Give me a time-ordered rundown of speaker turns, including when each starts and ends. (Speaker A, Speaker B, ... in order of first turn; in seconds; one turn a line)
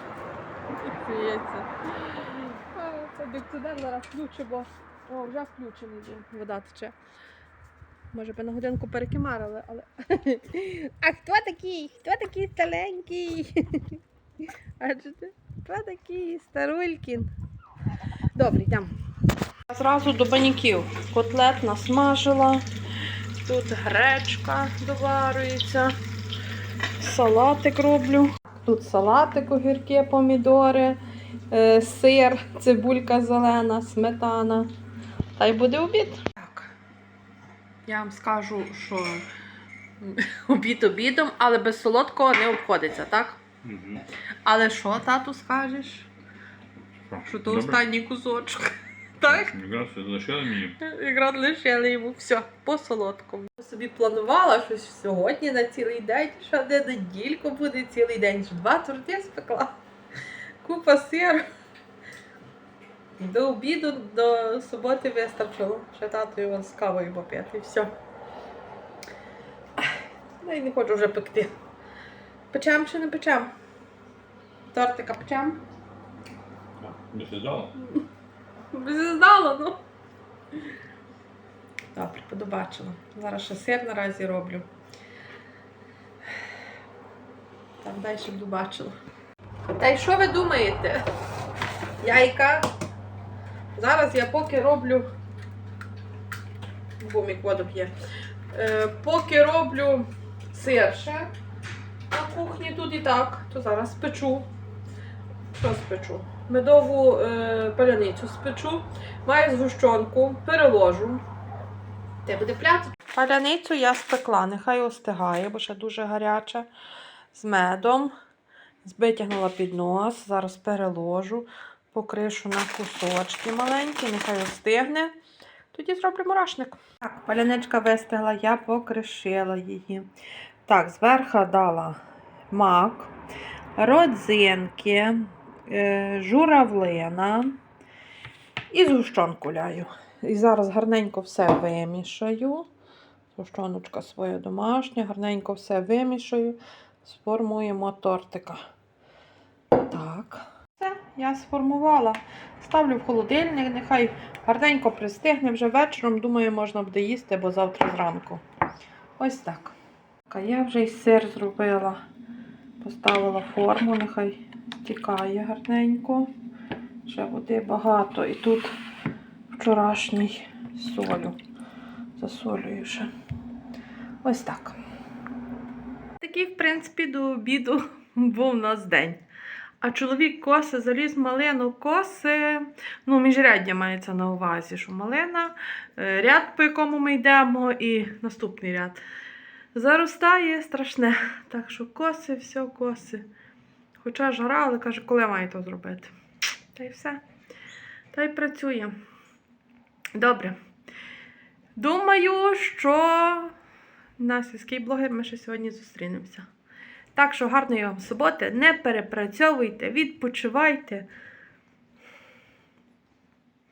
Speaker A: 0.8-6.9
Speaker A: 8.1-14.0
Speaker A: 14.8-17.3
Speaker A: 18.3-18.9
Speaker A: 19.7-22.6
Speaker A: 23.4-25.9
Speaker A: 27.0-31.0
Speaker A: 31.5-34.7
Speaker A: 35.4-36.7
Speaker A: 37.9-39.2
Speaker A: 40.0-43.4
Speaker B: 43.6-44.0
Speaker A: 44.4-46.1
Speaker B: 47.1-47.8
Speaker A: 47.2-49.5
Speaker B: 49.2-50.8
Speaker A: 50.8-59.8
Speaker A: 60.6-61.4
Speaker A: 63.2-67.9
Speaker A: 69.8-71.5
Speaker A: 72.5-73.5
Speaker A: 74.7-75.6
Speaker B: 76.8-77.7
Speaker A: 77.8-78.0
Speaker A: 78.7-79.8
Speaker A: 81.9-84.7
Speaker A: 87.8-88.9
Speaker A: 89.8-91.0
Speaker A: 92.0-92.7
Speaker A: 93.7-95.1
Speaker A: 97.0-97.9
Speaker A: 98.5-101.3
Speaker A: 102.1-104.5
Speaker A: 105.5-111.2
Speaker A: 112.2-116.7
Speaker A: 117.3-118.1
Speaker A: 118.8-125.1
Speaker A: 125.7-130.1
Speaker A: 130.7-132.0
Speaker A: 132.5-133.1
Speaker A: 133.8-137.6
Speaker A: 138.7-142.7
Speaker A: 143.3-148.6
Speaker A: 149.8-158.4
Speaker A: 159.2-159.7
Speaker A: 160.3-162.0
Speaker A: 162.8-166.3
Speaker A: 167.0-168.7
Speaker A: 169.5-171.4
Speaker A: 172.2-173.1
Speaker A: 174.2-174.8
Speaker A: 176.2-179.2
Speaker A: 179.8-189.0
Speaker A: 189.7-193.2
Speaker A: 194.0-196.1
Speaker A: 196.7-197.2
Speaker A: 198.1-198.9
Speaker A: 200.1-200.6
Speaker A: 201.8-203.5
Speaker A: 204.2-206.5
Speaker A: 207.1-211.1